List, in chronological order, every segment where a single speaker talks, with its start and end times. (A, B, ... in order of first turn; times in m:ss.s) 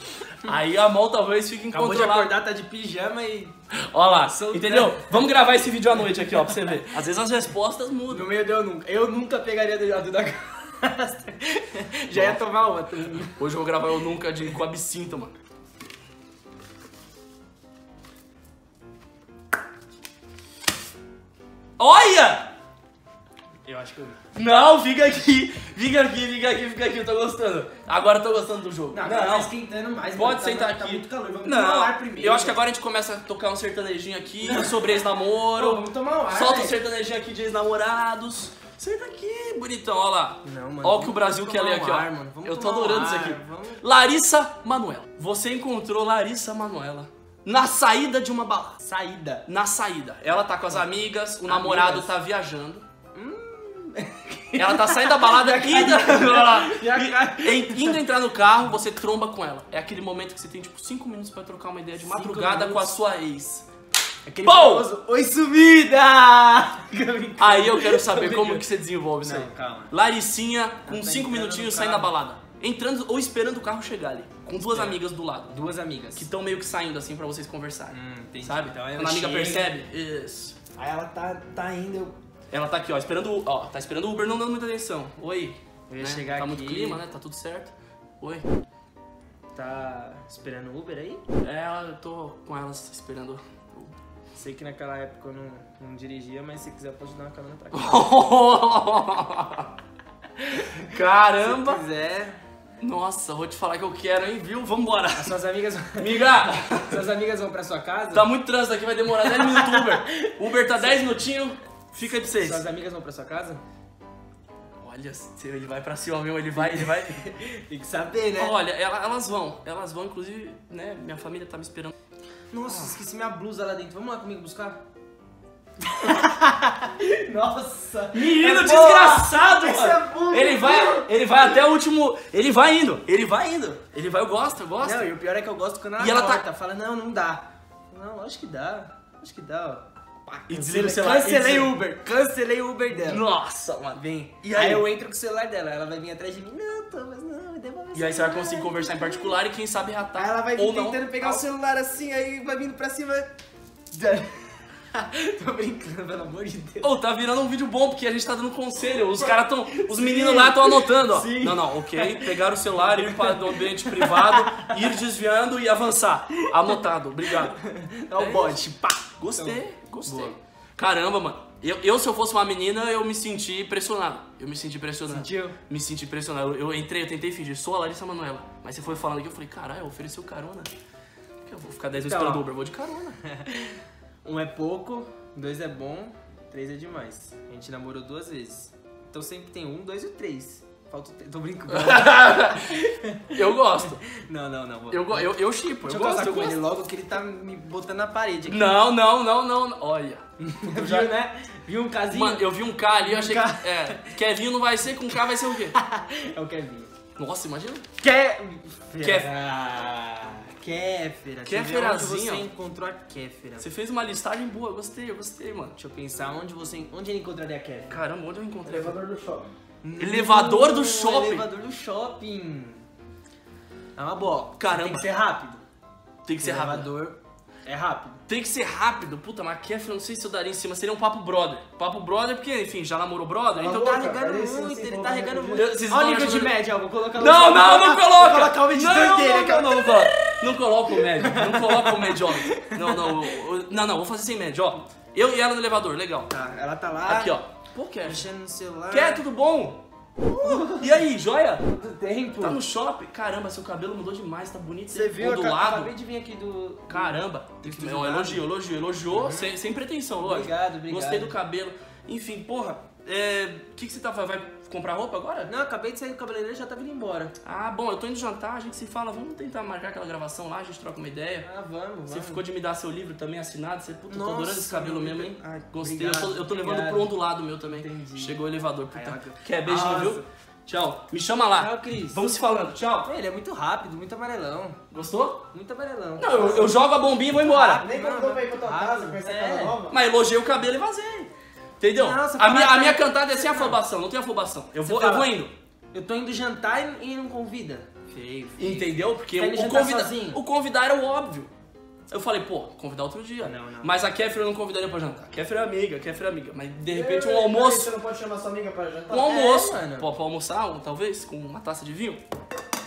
0:00.3-0:02.3 A
0:01.7-0:03.6 B
0:03.7-0:08.3 A
0:04.2-0:05.1 B
0:08.1-0:13.4 B
0:12.1-0:12.4 A
0:13.4-0:15.3 A
0:21.8-0:22.5 A
0:23.6-0:24.2 B
0:24.3-0:29.5 A
0:28.9-0:32.6 B
0:30.1-0:48.8 A
0:34.4-0:34.9 B
0:35.6-0:36.7 B
0:40.4-0:43.8 B
0:48.8-0:49.4 B
0:49.5-0:52.8 A
0:51.4-0:52.1 B
0:53.1-0:58.0 B
0:54.6-1:03.6 A
1:02.0-1:02.9 B
1:04.2-1:08.6 B
1:04.4-1:04.9 A
1:07.4-1:15.5 A
1:09.2-1:09.9 B
1:10.8-1:12.1 B
1:14.7-1:16.3 B
1:16.2-1:20.6 A
1:17.9-1:19.7 B
1:20.8-1:22.1 B
1:22.5-1:28.4 A
1:25.9-1:27.0 B
1:29.5-1:31.2 B
1:31.4-1:33.9 A
1:34.4-1:38.1 B
1:37.7-1:39.7 A
1:40.4-1:42.4 B
1:40.8-1:41.8 A
1:42.8-1:45.4 A
1:45.1-1:48.3 B
1:46.0-1:47.1 A
1:48.1-1:52.6 A
1:49.2-1:51.1 B
1:52.4-1:53.6 B
1:54.8-1:57.2 A
1:56.6-1:58.5 B
1:58.4-2:01.9 A
2:02.5-2:04.8 B
2:02.7-2:02.9 A
2:05.8-2:11.1 B
2:08.1-2:15.1 A
2:14.8-2:23.2 B
2:16.0-2:16.4 A
2:20.5-2:21.8 A
2:22.9-2:24.8 A
2:24.0-2:29.4 B
2:27.9-2:31.4 A
2:30.1-2:33.3 B
2:33.9-2:36.9 B
2:36.8-2:47.6 A
2:39.1-2:44.9 B
2:47.3-2:50.3 B
2:48.2-2:48.6 A
2:49.2-3:00.7 A
2:55.1-2:55.6 B
3:01.4-3:03.2 A
3:02.0-3:02.4 B
3:03.2-3:13.4 B
3:11.7-3:14.0 A
3:13.9-3:15.3 B
3:14.9-3:16.6 A
3:15.8-3:18.8 B
3:18.5-3:21.1 A
3:20.4-3:22.5 B
3:22.1-3:25.8 A
3:23.0-3:24.1 B
3:25.7-3:26.9 B
3:27.2-3:27.8 A
3:28.0-3:33.6 B
3:29.0-3:29.3 A
3:31.4-3:32.5 A
3:33.6-3:35.7 A
3:35.8-3:38.0 B
3:37.9-3:39.0 A
3:38.6-3:39.5 C
3:39.8-3:42.8 B
3:40.0-3:41.4 A
3:44.0-3:45.6 B
3:44.6-3:45.1 A
3:46.2-3:46.9 A
3:46.4-3:48.2 B
3:48.3-3:54.0 A
3:53.6-3:55.6 C
3:53.7-4:03.3 B
3:55.6-3:56.5 A
3:57.2-4:06.3 A
4:06.3-4:07.4 B
4:07.0-4:08.3 A
4:08.0-4:09.2 B
4:08.9-4:09.8 A
4:10.2-4:11.0 B
4:10.4-4:11.6 A
4:11.6-4:12.6 B
4:12.4-4:15.9 A
4:14.9-4:18.4 B
4:16.9-4:25.5 A
4:19.1-4:19.5 B
4:20.2-4:21.3 B
4:25.5-4:27.3 B
4:27.4-4:31.5 A
4:31.4-4:32.4 B
4:32.1-4:43.1 A
4:34.1-4:37.1 B
4:37.7-4:38.4 B
4:38.9-4:40.2 B
4:41.5-4:42.2 B
4:43.0-4:44.8 B
4:44.9-4:45.5 A
4:45.5-4:46.8 B
4:46.2-4:47.8 A
4:47.4-4:49.8 B
4:47.8-4:50.0 C
4:49.9-4:55.5 A
4:52.0-4:53.8 B
4:54.8-4:55.3 B
4:55.9-5:00.4 B
4:58.6-5:01.5 A
5:02.1-5:07.9 A
5:03.4-5:03.9 B
5:06.9-5:09.3 C
5:09.1-5:12.2 A
5:09.1-5:10.1 B